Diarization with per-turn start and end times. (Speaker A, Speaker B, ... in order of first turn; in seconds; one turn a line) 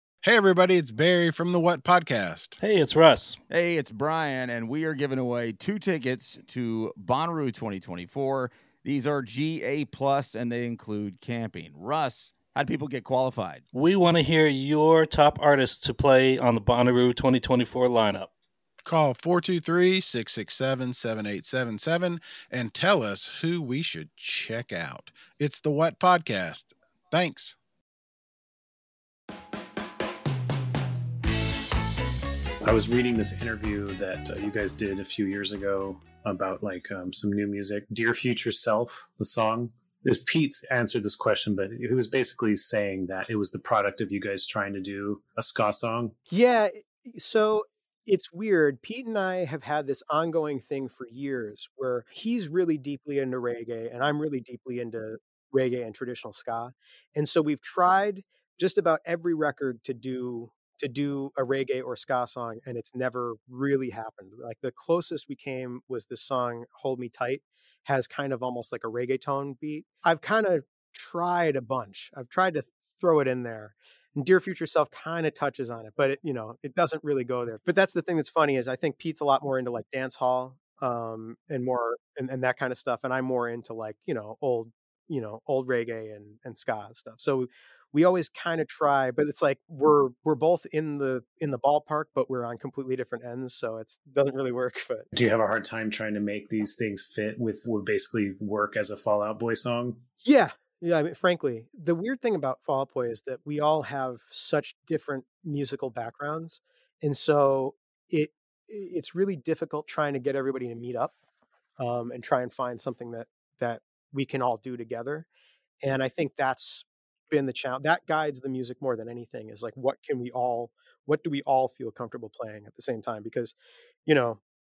Speaker A: 0.2-2.6
Speaker B: 2.6-3.4
Speaker C: 3.5-13.7
Speaker B: 13.7-18.3
Speaker A: 18.8-27.6
Speaker D: 32.6-46.1
Speaker E: 46.3-95.1
Speaker D: 95.1-100.0
Speaker E: 100.2-111.1
Speaker E: 111.8-115.3
Speaker E: 115.8-123.5
Speaker E: 124.1-124.4